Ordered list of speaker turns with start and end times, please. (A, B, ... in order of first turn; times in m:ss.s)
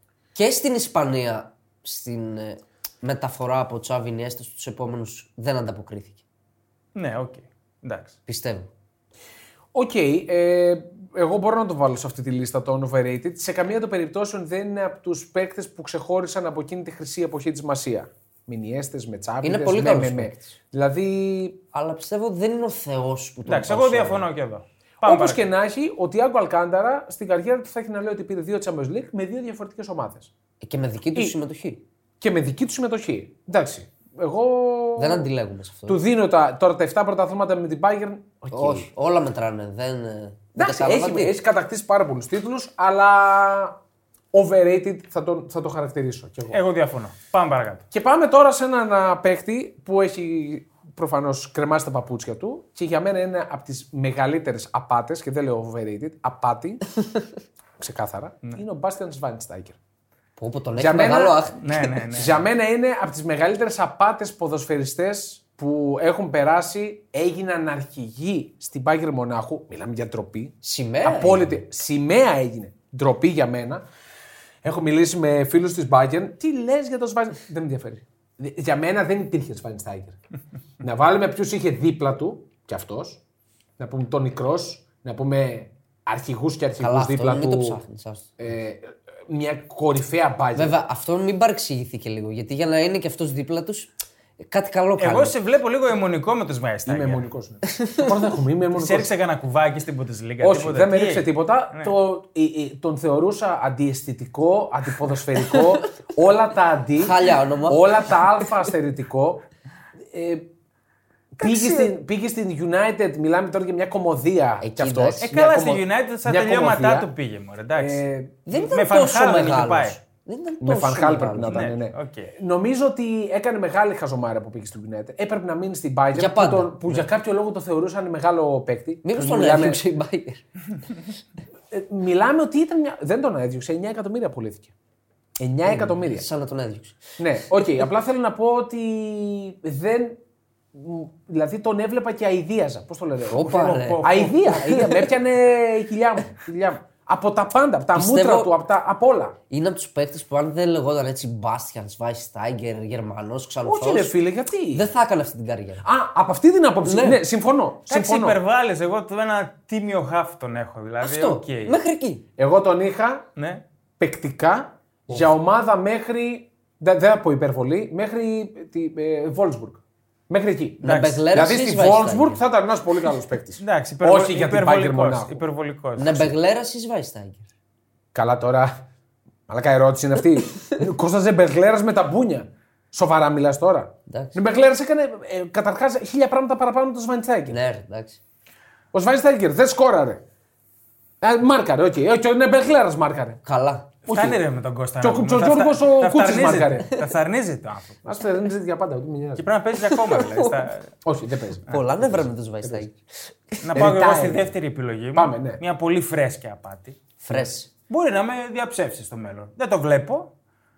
0:00.3-0:06.2 A
0:06.9-0:08.2 B
0:08.2-0:08.7 A
0:09.7-0:21.6 C
0:19.4-0:20.5 A
0:21.7-0:24.2 A
0:23.4-0:25.4 B
0:25.0-0:30.3 C
0:30.6-0:31.8 A
0:32.2-0:35.3 C
0:35.0-0:36.0 A
0:35.9-0:38.9 C
0:38.5-0:41.3 A
0:40.6-0:43.8 C
0:44.3-0:46.6 C
0:46.5-0:47.8 B
0:47.9-0:56.8 C
0:57.8-0:59.8 C
1:00.4-1:01.9 A
1:00.8-1:01.5 C
1:01.6-1:02.4 B
1:02.1-1:13.8 C
1:10.6-1:11.6 A
1:14.6-1:20.2 C
1:20.8-1:23.2 C
1:23.8-1:27.8 C
1:26.8-1:28.4 A
1:28.4-1:30.8 C
1:30.5-1:33.9 A
1:34.4-1:35.4 A
1:35.0-1:37.2 B
1:36.8-1:39.1 C
1:37.7-1:38.0 A
1:38.7-1:41.9 B
1:40.4-1:49.4 C
1:47.0-1:48.5 A
1:50.1-1:50.5 C
1:51.4-1:51.9 B
1:51.4-1:57.1 C
1:54.6-1:55.2 A
1:55.2-2:00.0 B
1:57.8-1:58.4 C
1:58.5-2:01.6 A
2:00.6-2:09.8 C
2:01.5-2:02.3 B
2:06.1-2:07.0 A
2:09.0-2:10.4 A
2:11.7-2:14.7 C
2:15.4-2:16.2 C
2:15.6-2:17.0 A
2:17.2-2:20.2 C
2:20.7-2:29.4 C
2:23.3-2:25.0 A
2:23.4-2:24.8 B
2:27.9-2:28.5 A
2:29.5-2:34.1 A
2:33.6-2:34.9 C
2:34.7-2:35.8 A
2:35.8-2:38.4 C
2:36.8-2:37.2 A
2:37.9-2:41.7 B
2:41.0-2:42.2 A
2:42.4-2:43.2 C
2:43.4-2:43.6 B
2:44.0-2:55.4 C
2:50.8-2:51.3 B
2:50.8-2:52.4 A
2:53.6-2:56.3 B
2:56.0-2:57.4 A
2:58.1-2:58.8 C
2:59.5-3:07.6 C
3:04.1-3:04.4 A
3:07.5-3:08.2 A
3:08.9-3:10.2 C
3:11.2-3:13.4 C
3:13.4-3:13.9 A
3:14.0-3:14.4 C
3:14.0-3:18.0 B
3:15.0-3:16.9 C
3:18.0-3:19.4 C
3:19.4-3:20.9 B
3:19.8-3:20.6 A
3:21.0-3:22.8 C
3:21.7-3:23.8 A
3:23.6-3:30.3 B
3:23.7-3:24.5 C
3:25.1-3:25.6 C
3:27.2-3:27.7 A